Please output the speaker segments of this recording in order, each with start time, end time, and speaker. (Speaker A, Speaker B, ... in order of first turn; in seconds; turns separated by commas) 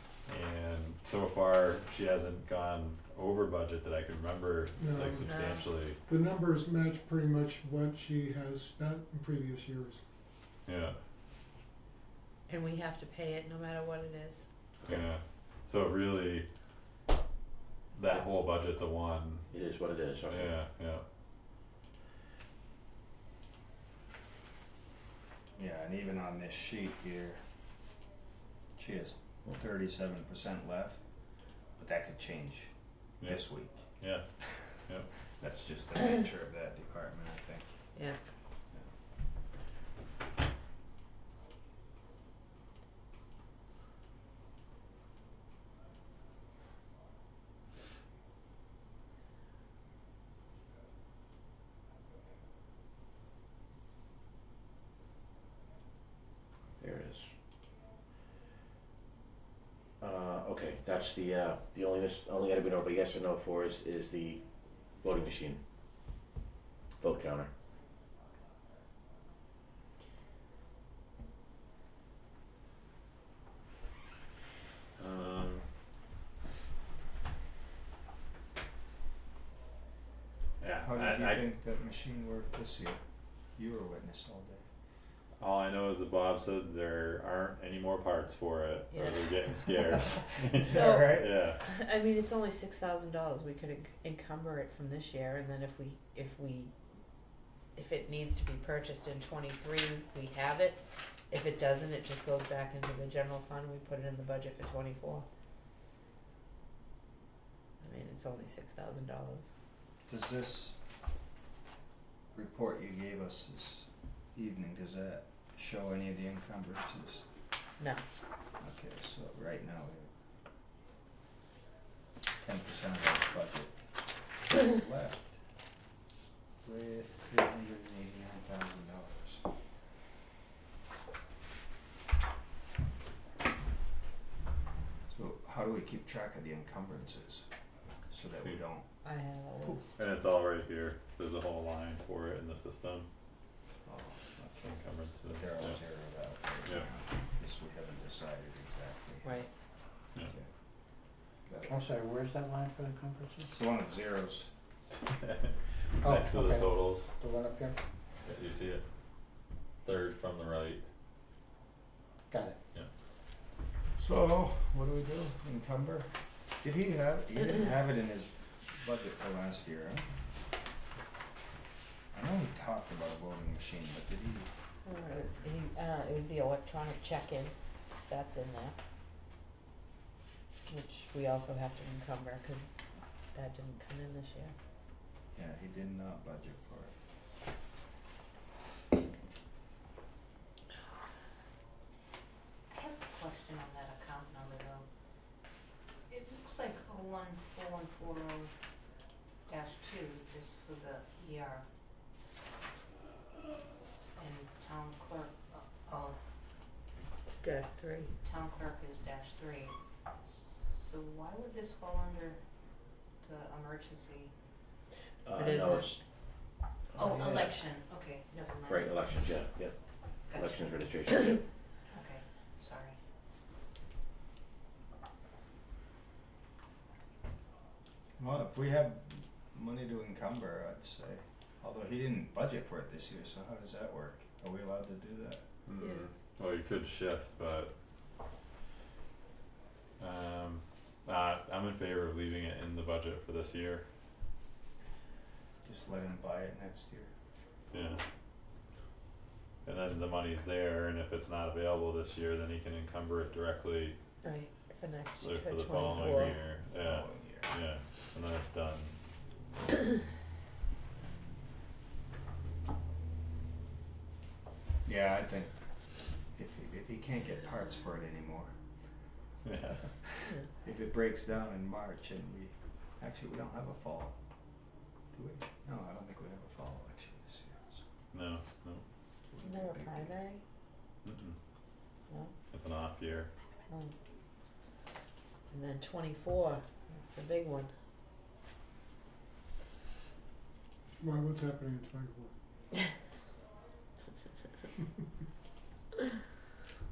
Speaker A: 0.3-6.0, Speaker B: 4.8-5.4, Speaker C: 5.2-5.7, Speaker B: 6.1-10.1, Speaker A: 10.7-11.0, Speaker C: 12.5-14.5, Speaker A: 14.8-16.5, Speaker A: 17.9-19.5, Speaker D: 19.5-20.6, Speaker A: 20.3-21.0, Speaker E: 25.6-27.4, Speaker E: 28.8-31.0, Speaker E: 31.8-33.9, Speaker A: 34.0-35.1, Speaker E: 35.3-37.8, Speaker D: 56.8-57.3, Speaker D: 60.0-65.7, Speaker D: 67.0-67.5, Speaker A: 75.0-75.7, Speaker A: 80.6-81.5, Speaker E: 80.8-83.0, Speaker E: 83.5-84.7, Speaker A: 85.4-91.6, Speaker C: 88.9-89.6, Speaker E: 90.5-91.4, Speaker C: 90.6-96.7, Speaker C: 97.8-105.3, Speaker C: 107.8-109.5, Speaker E: 110.1-110.8, Speaker E: 112.3-117.3, Speaker E: 118.6-120.1, Speaker E: 122.4-123.8, Speaker E: 124.5-125.4, Speaker E: 126.6-129.5, Speaker E: 135.1-137.5, Speaker E: 138.1-138.9, Speaker C: 139.0-140.0, Speaker A: 140.0-143.1, Speaker E: 143.9-149.4, Speaker A: 144.6-145.8, Speaker C: 149.2-149.5, Speaker E: 150.2-150.5, Speaker E: 151.5-151.8, Speaker F: 151.7-153.5, Speaker E: 153.5-154.5, Speaker A: 154.9-157.1, Speaker F: 156.0-157.8, Speaker A: 158.2-158.8, Speaker A: 159.8-160.8, Speaker F: 162.3-162.6, Speaker E: 164.0-166.1, Speaker E: 166.6-170.1, Speaker E: 172.1-174.5, Speaker C: 174.8-177.5, Speaker C: 178.1-178.8, Speaker C: 180.7-182.7, Speaker C: 183.3-184.5, Speaker E: 185.3-186.9, Speaker G: 192.7-194.8, Speaker G: 196.1-198.5, Speaker G: 199.5-201.7, Speaker G: 204.2-206.2, Speaker C: 207.4-208.1, Speaker G: 208.2-209.7, Speaker G: 210.2-212.4, Speaker G: 213.2-214.3, Speaker D: 215.2-216.0, Speaker C: 215.4-216.0, Speaker D: 216.9-217.6, Speaker G: 216.9-219.0, Speaker D: 218.7-219.7, Speaker G: 220.3-220.6, Speaker D: 220.3-221.4, Speaker G: 221.9-223.0, Speaker E: 228.2-235.4, Speaker A: 235.7-237.7, Speaker C: 235.8-236.1, Speaker A: 240.0-243.8, Speaker E: 245.6-247.1, Speaker A: 247.7-248.0, Speaker A: 249.7-254.0, Speaker C: 254.2-256.4, Speaker A: 255.2-259.0, Speaker E: 255.9-257.5, Speaker E: 264.9-265.5, Speaker E: 266.3-268.5, Speaker A: 269.4-269.9, Speaker E: 270.1-274.2, Speaker E: 275.1-277.8, Speaker A: 278.1-278.8, Speaker E: 279.3-280.2, Speaker C: 279.4-280.4, Speaker A: 281.1-281.4, Speaker A: 282.5-283.3, Speaker C: 285.5-287.7, Speaker B: 291.0-292.4